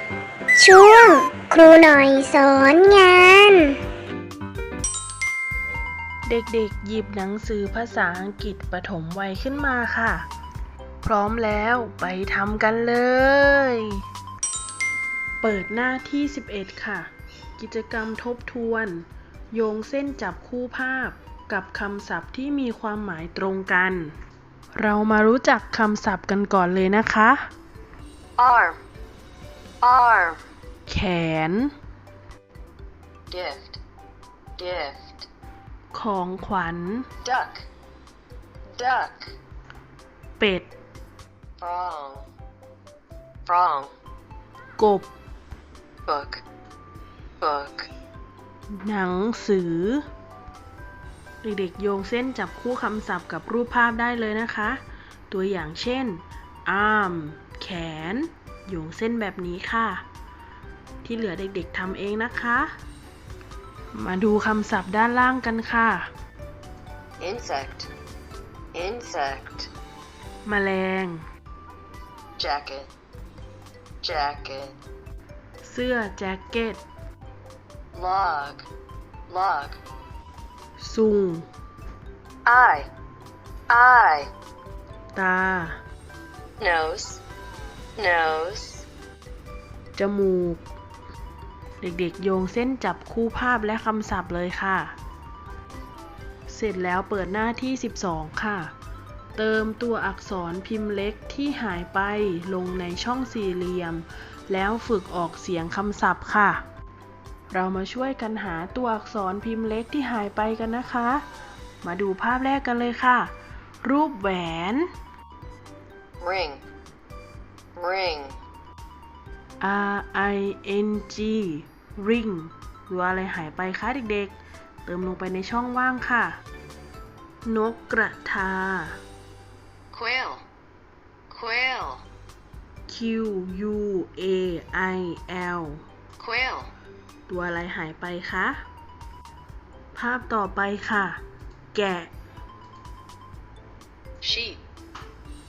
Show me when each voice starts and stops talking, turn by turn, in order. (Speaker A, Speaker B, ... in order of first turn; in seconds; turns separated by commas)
Speaker A: 0.6-3.8, Speaker B: 6.2-10.3, Speaker B: 11.0-14.0, Speaker B: 15.4-24.1, Speaker B: 24.8-27.4, Speaker C: 28.4-28.8, Speaker C: 29.8-30.4, Speaker B: 30.9-31.7, Speaker C: 33.3-33.8, Speaker C: 34.6-35.3, Speaker B: 35.9-37.1, Speaker C: 37.2-37.6, Speaker C: 38.7-39.3, Speaker B: 40.4-40.7, Speaker C: 41.6-42.3, Speaker C: 43.5-43.9, Speaker B: 44.8-45.1, Speaker C: 46.1-46.4, Speaker C: 47.4-47.9, Speaker B: 48.7-50.0, Speaker B: 51.4-60.0, Speaker B: 61.0-62.7, Speaker B: 63.9-66.1, Speaker C: 67.2-67.9, Speaker C: 68.7-69.7, Speaker B: 70.4-71.2, Speaker C: 72.4-72.9, Speaker C: 74.0-74.8, Speaker B: 75.6-76.8, Speaker C: 77.9-78.7, Speaker C: 79.3-79.8, Speaker B: 80.8-81.5, Speaker C: 82.4-82.9, Speaker C: 83.7-84.3, Speaker B: 85.1-85.8, Speaker C: 86.6-87.2, Speaker C: 88.0-88.8, Speaker B: 90.0-90.6, Speaker B: 91.8-95.0, Speaker B: 96.5-98.7, Speaker B: 99.3-106.6, Speaker B: 107.5-111.2, Speaker B: 111.8-114.9, Speaker C: 116.2-116.6, Speaker C: 117.8-118.3, Speaker B: 119.6-126.4, Speaker B: 127.4-129.0, Speaker C: 129.9-130.4, Speaker C: 131.3-132.0, Speaker B: 132.9-135.8, Speaker C: 136.2-136.7, Speaker B: 137.3-138.6, Speaker B: 139.9-141.2, Speaker B: 141.7-142.1, Speaker C: 144.2-144.6